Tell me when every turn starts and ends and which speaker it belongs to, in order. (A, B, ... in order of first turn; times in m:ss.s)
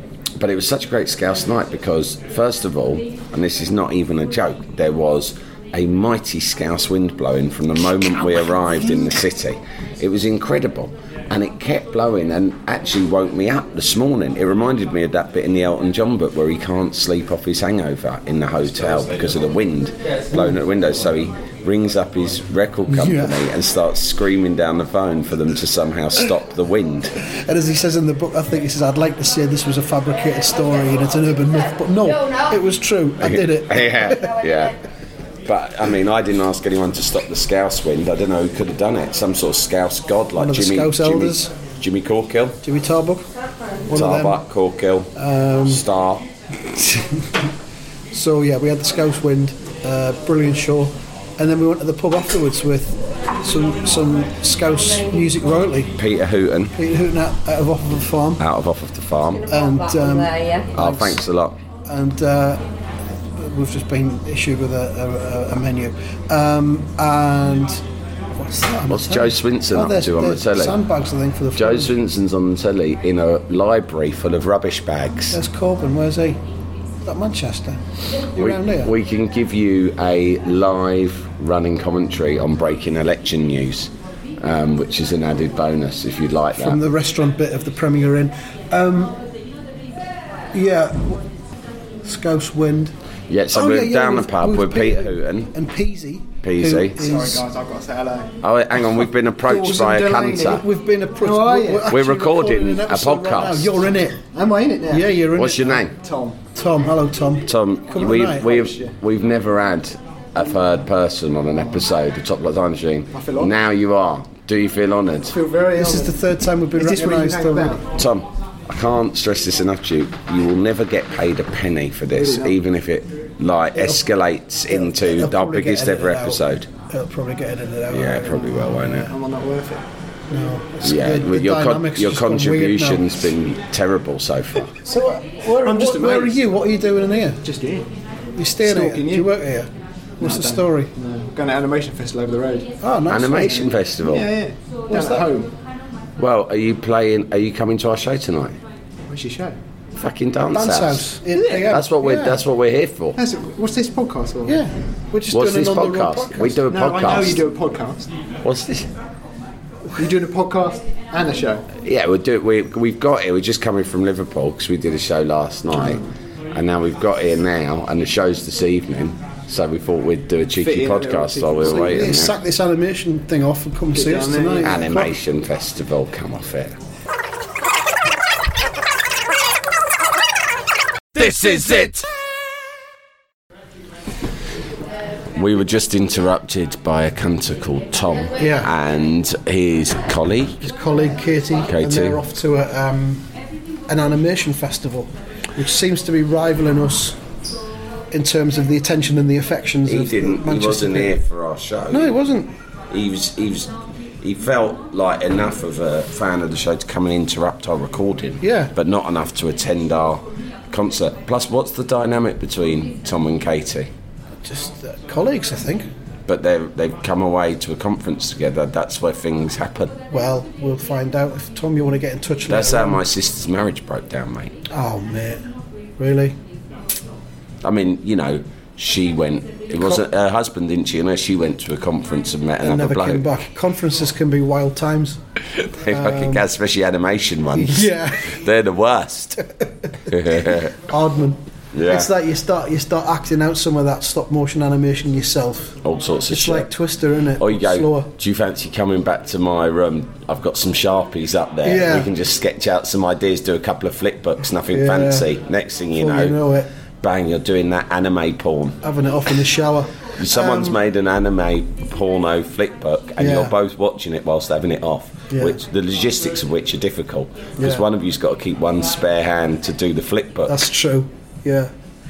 0:00.4-0:27.1 A
0:22.9-0:23.4 B
0:27.2-0:34.4 B
0:33.2-0:34.8 A
0:35.4-0:42.6 A
0:40.4-0:41.5 B
0:42.6-0:43.3 B
0:43.9-0:44.4 B
0:43.9-0:45.1 A
0:45.1-0:45.8 B
0:45.6-0:46.3 A
0:48.1-0:56.0 B
0:56.0-0:56.8 A
0:56.7-0:58.4 B
0:58.4-0:59.5 A
0:59.4-1:01.2 B
1:00.7-1:01.6 A
1:01.8-1:02.6 B
1:03.2-1:07.8 B
1:08.4-1:11.9 B
1:08.9-1:10.8 A
1:11.5-1:15.4 A
1:15.3-1:16.4 B
1:17.0-1:18.9 B
1:18.4-1:26.8 A
1:26.5-1:29.2 B
1:30.5-1:31.2 B
1:32.0-1:32.9 B
1:33.3-1:35.5 A
1:33.5-1:37.4 B
1:36.4-1:37.0 A
1:37.0-1:38.4 C
1:38.4-1:40.6 A
1:39.4-1:40.6 C
1:39.6-1:44.2 B
1:41.2-1:42.0 C
1:41.8-1:43.9 A
1:44.3-1:45.1 C
1:44.9-1:45.8 B
1:45.3-1:45.9 A
1:45.9-1:46.4 C
1:46.5-1:48.6 B
1:47.4-1:55.4 A
1:48.5-1:48.9 C
1:53.1-1:53.5 C
1:55.3-1:56.2 C
1:55.7-1:57.8 B
1:56.8-1:57.9 C
1:57.9-2:06.7 A
2:02.1-2:02.6 C
2:03.8-2:04.0 B
2:04.7-2:08.7 B
2:07.9-2:09.1 A
2:08.4-2:09.8 C
2:10.3-2:13.1 B
2:10.8-2:14.7 A
2:14.8-2:17.4 B
2:15.6-2:16.4 C
2:17.4-2:17.9 C
2:18.4-2:20.9 B
2:18.6-2:19.3 C
2:20.2-2:22.7 C
2:22.8-2:23.7 B
2:23.1-2:24.3 A
2:24.0-2:25.5 C
2:24.9-2:25.3 B
2:26.2-2:28.6 A
2:29.1-2:29.6 C
2:30.0-2:33.2 A
2:30.5-2:32.4 B
2:33.2-2:34.6 C
2:34.4-2:36.6 B
2:35.3-2:37.4 A
2:36.7-2:38.1 C
2:38.4-2:38.9 A
2:40.0-2:41.7 C
2:41.8-2:52.4 A
2:45.8-2:46.0 C
2:50.6-2:52.3 C
2:51.6-2:55.1 B
2:53.9-2:55.0 C
2:54.6-2:56.8 A
3:01.1-3:02.1 A
3:05.4-3:10.6 A
3:08.4-3:08.7 B
3:10.6-3:13.3 B
3:11.6-3:12.2 A
3:13.9-3:17.2 B
3:18.1-3:21.2 B
3:19.8-3:22.2 A
3:21.9-3:22.5 B
3:22.9-3:33.9 A
3:28.4-3:28.7 B
3:34.4-3:35.9 B
3:36.3-3:40.0 A
3:40.1-3:43.0 B
3:42.5-3:44.5 A
3:44.7-3:45.4 B
3:46.0-3:46.4 B
3:47.6-3:53.3 A
3:52.6-3:55.2 B
3:55.6-3:59.4 A
3:55.9-3:56.5 B
3:57.5-3:58.4 B
4:00.0-4:00.7 A
4:00.4-4:08.1 B
4:01.7-4:02.1 A
4:05.8-4:06.7 A
4:07.4-4:16.4 A
4:11.6-4:12.1 B
4:14.7-4:15.3 B
4:15.9-4:16.7 B
4:17.0-4:18.8 A
4:18.8-4:20.8 B
4:20.2-4:30.6 A
4:23.2-4:23.5 B
4:25.3-4:25.6 B
4:27.6-4:27.8 B
4:30.5-4:31.7 B